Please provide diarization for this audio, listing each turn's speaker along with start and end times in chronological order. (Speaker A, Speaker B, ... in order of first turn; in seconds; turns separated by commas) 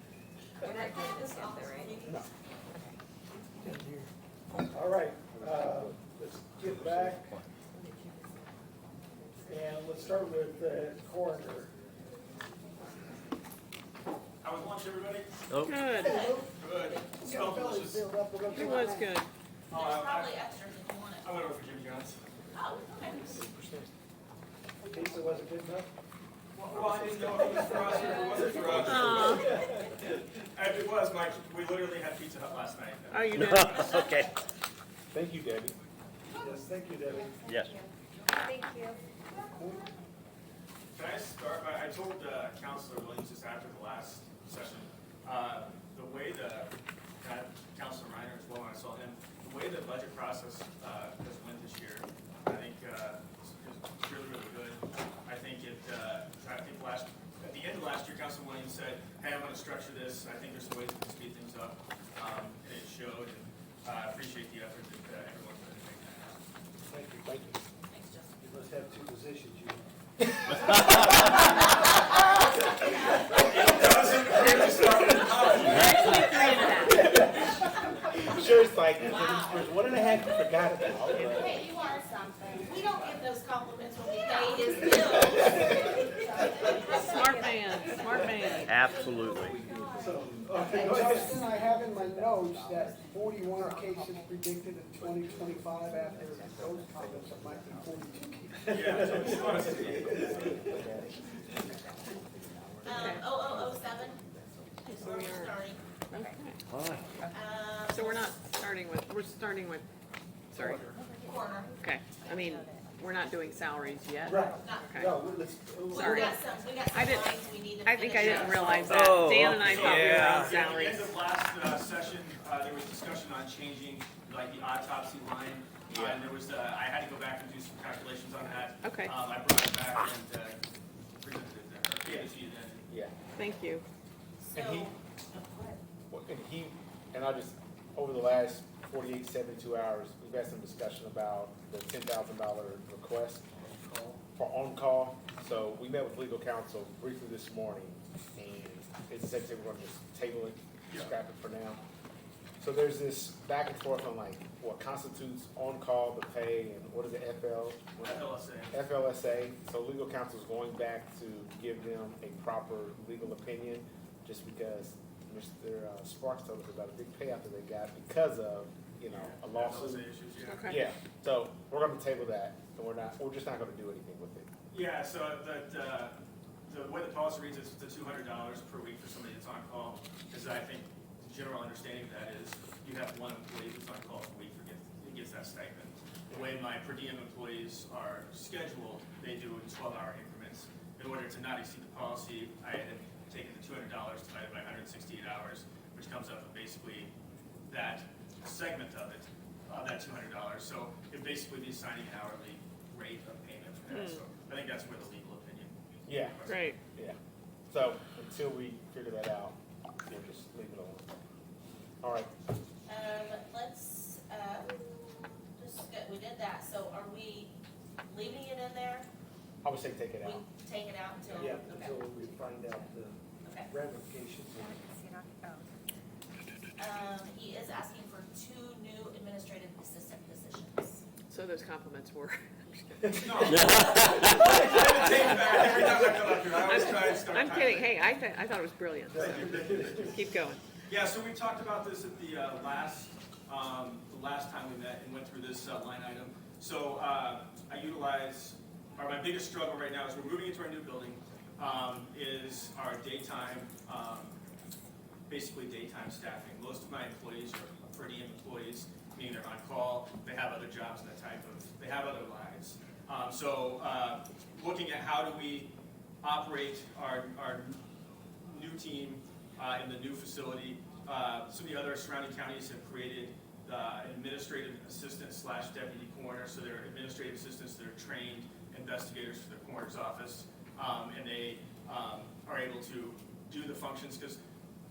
Speaker A: 0.6-2.7, Speaker B: 0.6-2.0, Speaker C: 4.7-7.4, Speaker D: 5.4-6.0, Speaker D: 6.7-7.2, Speaker C: 9.4-11.7, Speaker E: 14.4-15.4, Speaker F: 15.6-16.3, Speaker C: 15.9-16.5, Speaker A: 16.0-17.1, Speaker E: 16.5-18.0, Speaker C: 17.1-19.1, Speaker F: 18.5-19.3, Speaker E: 19.7-20.4, Speaker A: 19.7-21.3, Speaker E: 21.2-22.2, Speaker A: 22.5-23.4, Speaker D: 23.3-23.9, Speaker C: 24.8-25.9, Speaker E: 26.5-34.0, Speaker C: 26.7-29.7, Speaker F: 28.8-29.5, Speaker F: 33.1-34.0, Speaker G: 33.3-34.3, Speaker D: 35.1-35.8, Speaker C: 36.3-37.5, Speaker G: 37.5-37.7, Speaker B: 37.6-39.0, Speaker C: 39.3-39.9, Speaker E: 40.9-66.4, Speaker C: 66.8-67.5, Speaker D: 67.2-67.6, Speaker A: 67.9-68.4, Speaker C: 68.4-69.9, Speaker D: 70.5-71.1, Speaker A: 72.1-73.4, Speaker E: 73.3-76.8, Speaker F: 75.6-77.1, Speaker A: 75.8-77.1, Speaker C: 76.9-77.2, Speaker D: 77.2-77.6, Speaker D: 78.1-81.7, Speaker A: 78.4-80.4, Speaker A: 81.2-82.0, Speaker B: 81.4-83.1, Speaker A: 82.6-85.7, Speaker B: 84.1-90.9, Speaker C: 85.0-87.1, Speaker F: 87.0-88.9, Speaker C: 88.0-88.3, Speaker G: 88.7-89.6, Speaker A: 88.8-89.3, Speaker D: 89.3-93.7, Speaker C: 89.8-91.4, Speaker A: 90.6-90.9, Speaker H: 90.9-98.7, Speaker B: 93.7-94.3, Speaker D: 95.0-106.0, Speaker C: 98.6-100.9, Speaker E: 98.7-100.4, Speaker A: 102.8-104.2, Speaker F: 102.9-103.2, Speaker A: 104.8-105.8, Speaker F: 105.0-105.5, Speaker F: 106.1-106.6, Speaker G: 106.8-107.0, Speaker B: 107.2-107.5, Speaker A: 107.2-108.3, Speaker F: 107.9-109.8, Speaker F: 110.5-110.9, Speaker C: 110.6-110.9, Speaker B: 110.9-115.6, Speaker A: 111.2-111.8, Speaker F: 111.8-115.2, Speaker C: 114.2-116.3, Speaker A: 114.5-114.9, Speaker A: 115.9-119.2, Speaker F: 115.9-121.1, Speaker E: 118.2-118.7, Speaker G: 118.9-120.5, Speaker E: 119.5-130.6, Speaker D: 125.9-126.3, Speaker F: 128.8-129.1, Speaker E: 131.2-132.8, Speaker D: 132.1-132.3, Speaker D: 132.9-133.1, Speaker F: 133.3-133.8, Speaker A: 134.4-135.8, Speaker D: 134.5-134.9, Speaker D: 136.1-143.5, Speaker C: 143.6-144.2, Speaker D: 144.3-151.8, Speaker D: 152.6-170.1, Speaker E: 158.0-158.8, Speaker E: 169.1-170.8, Speaker F: 170.5-170.8, Speaker D: 170.7-174.5, Speaker E: 174.7-197.1, Speaker E: 197.7-206.7, Speaker F: 203.9-204.2, Speaker D: 206.1-207.2, Speaker F: 206.5-206.8, Speaker D: 207.7-209.6, Speaker D: 210.1-211.1, Speaker D: 212.0-212.3, Speaker A: 212.8-217.6, Speaker A: 218.1-219.1, Speaker D: 219.6-220.4, Speaker A: 220.2-222.4, Speaker C: 221.2-224.8, Speaker A: 223.4-223.7, Speaker B: 224.6-225.7, Speaker A: 226.8-231.0, Speaker F: 231.3-233.3, Speaker E: 233.2-237.9, Speaker C: 234.2-234.7, Speaker F: 236.6-240.6, Speaker C: 239.1-240.2, Speaker E: 239.1-240.2, Speaker E: 240.9-254.4, Speaker E: 255.3-267.8, Speaker E: 268.4-284.4